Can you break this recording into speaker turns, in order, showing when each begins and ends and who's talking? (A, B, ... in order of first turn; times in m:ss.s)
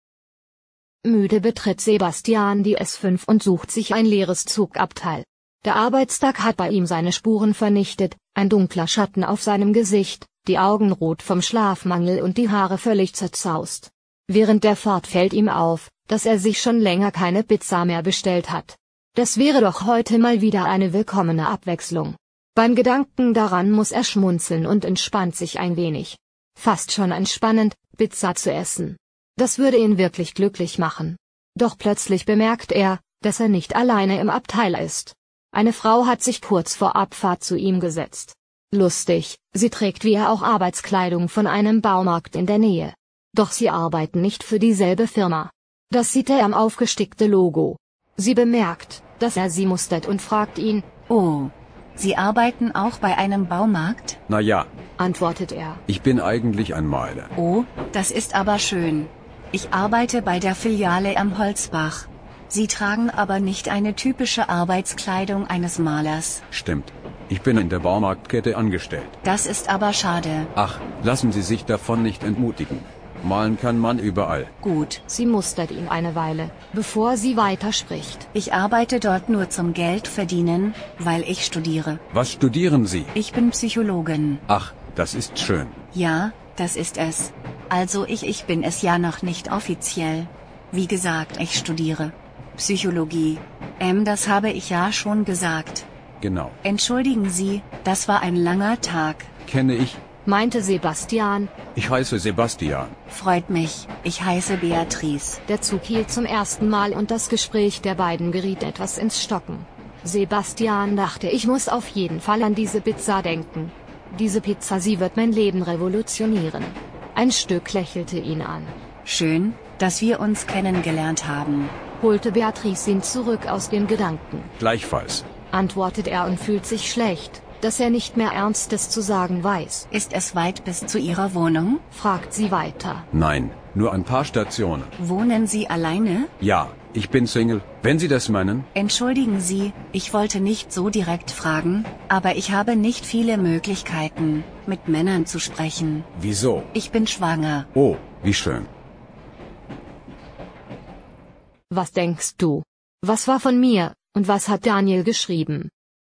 0:01.0-0:50.9 A
0:51.1-0:54.2 B
0:54.3-0:54.7 C
0:55.0-0:55.8 A
0:55.9-0:57.3 C
0:57.4-1:06.4 B
1:06.5-1:09.2 C
1:09.2-1:10.5 B
1:10.6-1:14.5 C
1:14.6-1:15.0 B
1:15.1-1:18.3 A
1:18.3-1:22.0 B
1:22.1-1:23.1 C
1:23.1-1:24.4 B
1:24.5-1:25.8 C
1:25.9-1:35.8 B
1:36.2-1:36.6 C
1:36.6-1:39.3 B
1:39.4-1:40.0 C
1:40.2-1:41.5 A
1:41.7-1:43.0 C
1:43.1-1:45.4 B
1:45.5-1:58.7 A
1:59.0-2:01.8 B
2:02.0-2:04.5 A
2:04.6-2:05.2 C
2:05.5-2:09.9 A
2:09.9-2:11.8 B
2:11.9-2:13.1 A
2:13.1-2:14.9 C
2:15.0-2:16.3 B
2:16.4-2:18.7 C
2:18.7-2:26.1 B
2:26.1-2:26.7 C
2:26.7-2:27.7 B
2:27.7-2:28.7 C
2:31.7-2:35.7 A